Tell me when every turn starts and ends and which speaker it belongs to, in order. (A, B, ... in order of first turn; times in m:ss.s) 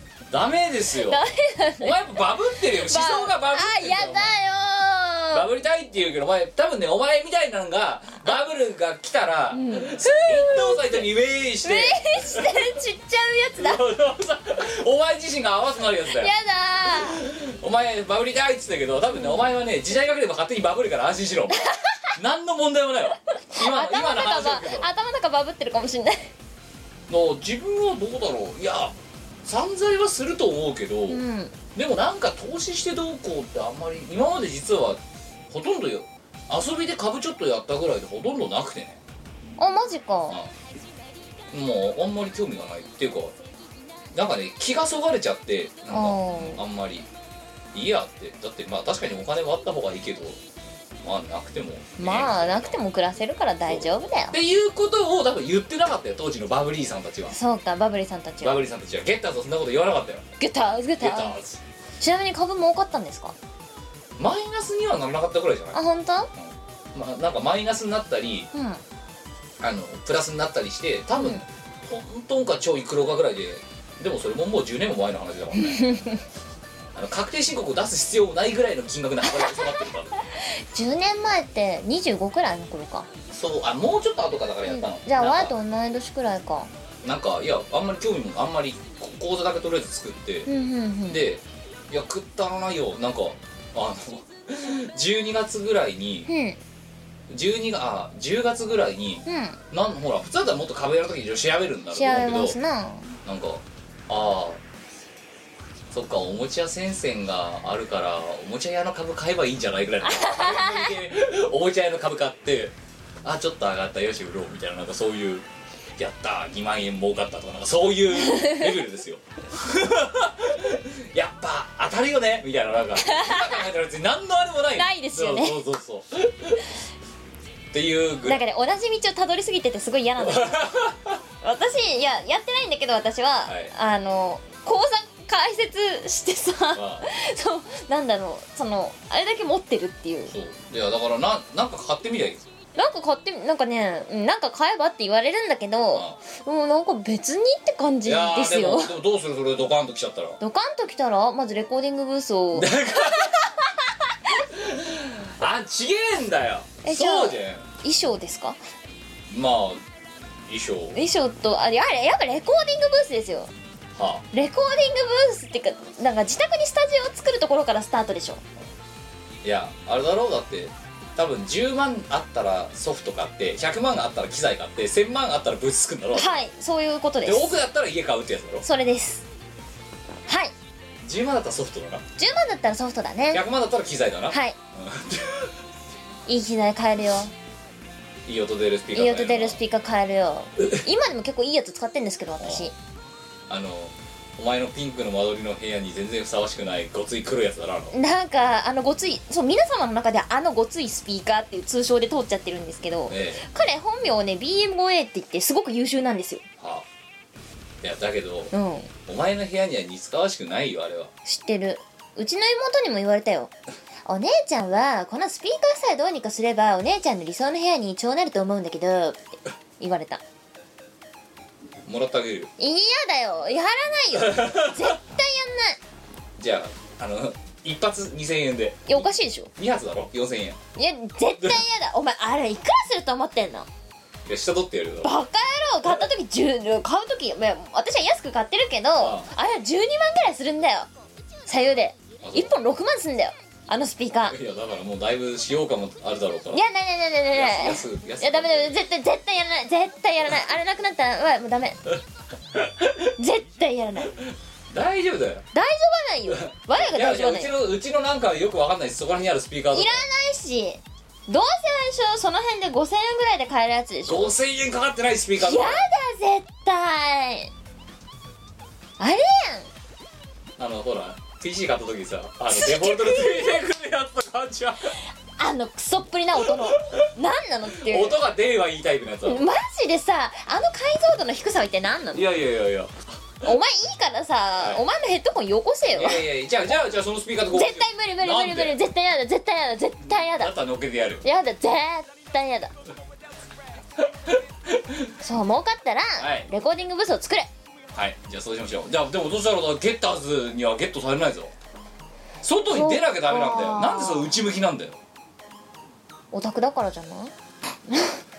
0:00.3-0:01.2 A
0:01.1-0:02.0 B
0:01.8-0:04.3 A
0:02.6-0:05.5 B
0:05.3-0:12.7 A
0:09.5-0:11.0 B
0:11.6-0:13.8 B
0:13.6-0:16.3 A
0:16.1-0:17.2 B
0:16.9-0:24.9 A
0:19.1-0:19.5 B
0:21.6-0:22.1 B
0:23.5-0:26.3 B
0:27.1-0:31.2 A
0:31.1-0:31.5 B
0:31.8-0:35.0 A
0:35.5-0:39.0 A
0:39.6-0:40.4 B
0:41.5-0:43.3 A
0:44.1-0:47.1 A
0:45.9-0:46.6 B
0:47.7-0:50.4 A
0:51.0-0:52.8 A
0:52.0-0:54.4 B
0:53.7-0:57.4 A
0:57.3-0:58.6 B
0:58.4-1:00.3 A
1:00.4-1:01.3 B
1:01.0-1:01.6 A
1:02.0-1:03.4 B
1:04.2-1:05.8 A
1:05.7-1:06.3 B
1:06.4-1:08.5 A
1:08.5-1:08.8 B
1:09.6-1:16.0 A
1:11.2-1:11.4 B
1:15.5-1:16.2 B
1:17.0-1:20.2 A
1:19.2-1:19.8 B
1:20.4-1:23.1 B
1:23.3-1:25.5 A
1:24.7-1:26.7 B
1:27.0-1:30.5 A
1:30.5-1:31.3 B
1:31.1-1:36.3 A
1:36.3-1:36.6 B
1:37.3-1:42.6 A
1:39.3-1:39.6 B
1:41.9-1:43.1 B
1:43.2-1:44.6 A
1:45.9-1:55.4 A
1:50.0-1:50.9 B
1:56.0-2:06.7 A
1:58.3-1:58.6 B
2:03.0-2:03.6 B
2:04.8-2:05.6 B
2:07.7-2:08.4 A
2:08.2-2:10.8 B
2:10.2-2:11.2 A
2:11.4-2:20.3 B
2:13.5-2:13.7 A
2:16.7-2:17.1 A
2:20.3-2:22.4 A
2:22.8-2:28.9 B
2:28.0-2:30.4 A
2:30.4-2:33.4 B
2:32.6-2:33.5 A
2:34.5-2:37.6 A
2:36.8-2:38.6 B
2:39.3-2:39.8 A
2:40.5-2:41.0 A
2:40.9-2:43.5 B
2:44.0-2:44.2 A
2:44.3-2:48.4 B
2:49.4-2:56.4 A
2:56.2-2:57.6 B
2:57.2-2:58.6 A
2:58.6-2:59.2 B
3:00.3-3:00.5 B
3:01.0-3:02.0 A
3:02.2-3:03.4 B
3:03.3-3:05.5 A
3:04.3-3:04.6 B
3:06.3-3:07.3 B
3:08.3-3:09.6 A
3:08.9-3:12.7 B
3:12.4-3:12.7 A
3:13.5-3:17.9 A
3:17.9-3:26.4 B
3:23.1-3:23.5 A
3:26.6-3:26.8 A
3:27.8-3:28.5 A
3:28.5-3:28.9 B
3:29.1-3:31.1 A
3:31.3-3:33.5 B
3:34.1-3:39.2 B
3:39.8-3:40.2 B
3:41.9-3:42.5 A
3:42.6-3:45.8 B
3:44.2-3:44.9 A
3:46.4-3:50.6 A
3:48.9-3:49.5 B
3:50.8-3:53.7 B
3:54.3-3:55.1 A
3:55.0-4:00.9 B
3:59.0-3:59.3 A
4:01.5-4:04.4 B
4:02.2-4:02.5 A
4:04.3-4:06.6 A
4:06.5-4:11.8 B
4:07.3-4:08.7 A
4:12.5-4:13.1 A
4:13.2-4:14.1 B
4:14.2-4:15.4 A
4:15.5-4:17.5 B
4:16.3-4:20.0 A
4:19.7-4:24.3 B
4:24.1-4:25.8 A
4:25.4-4:27.5 B
4:29.0-4:29.7 B
4:30.6-4:35.0 A
4:32.5-4:33.6 B
4:35.4-4:38.2 B
4:37.8-4:39.5 A
4:39.2-4:42.2 B
4:42.1-4:43.0 A
4:43.4-4:46.2 B
4:45.9-4:48.8 A
4:47.5-4:50.5 B
4:50.1-4:51.2 A
4:51.2-4:52.7 B
4:54.1-4:55.1 A
4:55.2-4:57.5 B
4:56.2-4:56.5 A
4:57.9-5:01.5 A
5:02.4-5:05.0 A
5:02.7-5:04.4 B
5:06.3-5:07.3 B
5:07.9-5:08.2 B